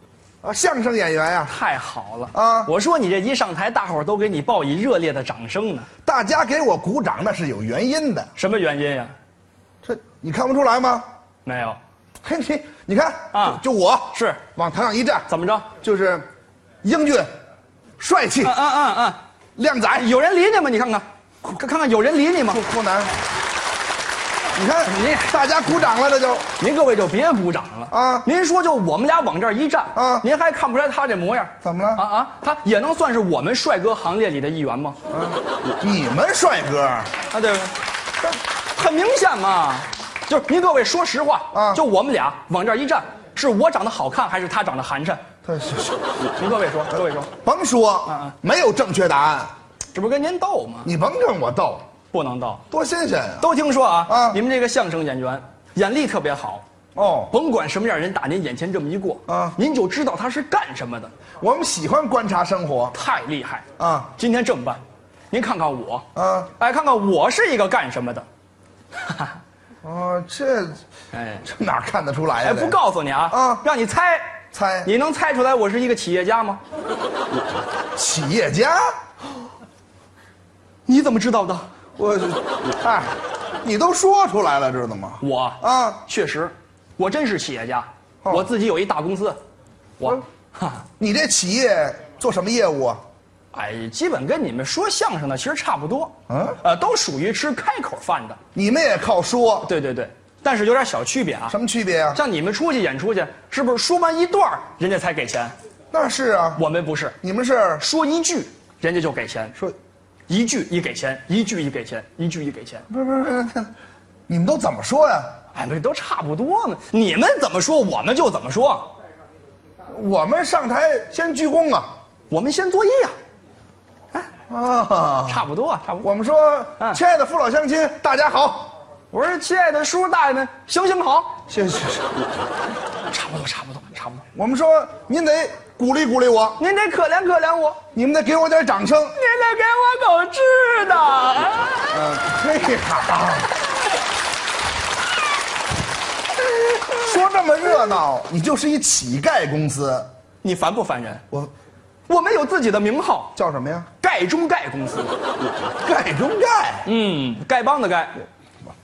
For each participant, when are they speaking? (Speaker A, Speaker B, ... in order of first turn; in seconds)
Speaker A: 0.4-1.5, 2.3-2.7, 6.0-8.3, 9.8-11.1, 12.2-15.3, 15.8-16.2, 16.8-17.3, 18.0-18.6, 19.6-20.1, 22.5-23.1, 24.5-26.5, 27.9-28.3, 29.9-30.3, 31.6-32.1, 35.1-37.1, 41.5-41.8, 45.4-46.1, 47.4-49.5, 50.9-51.9, 52.7-53.5, 54.1-54.4, 57.0-57.3, 59.3-59.6, 61.4-63.0, 63.8-64.1, 66.2-66.5, 69.8-70.8, 71.4-73.7, 74.5-74.9, 78.0-78.9, 82.0-86.0, 91.0-93.0, 96.3-96.6, 98.5-99.7, 101.5-102.2, 105.9-106.6, 107.2-107.8, 112.9-113.7, 114.3-115.3, 119.9-121.9, 124.5-125.4, 126.0-128.7, 131.5-132.2, 134.3-136.6, 137.9-139.2, 141.9-143.6, 146.9-150.1, 153.4-153.9, 155.8-156.9
Speaker B: 1.5-5.9, 8.4-9.1, 11.4-11.8, 13.3-13.6, 14.1-14.4, 15.3-15.7, 18.4-19.2, 19.9-22.6, 24.8-25.3, 26.6-35.0, 37.3-45.2, 46.4-47.3, 48.1-48.3, 49.9-50.9, 52.1-52.6, 53.4-56.6, 57.3-61.1, 62.9-63.6, 64.2-66.0, 66.6-68.3, 69.0-69.3, 71.1-71.4, 72.4-76.6, 80.9-81.7, 85.2-89.4, 90.0-90.8, 93.5-98.4, 99.6-101.5, 102.1-105.5, 106.6-107.2, 107.8-109.6, 110.3-112.8, 115.5-118.9, 122.3-123.2, 125.3-126.1, 129.1-131.4, 133.1-134.2, 136.6-137.8, 139.1-142.2, 150.4-151.2, 152.1-153.3, 154.0-155.2, 156.8-158.2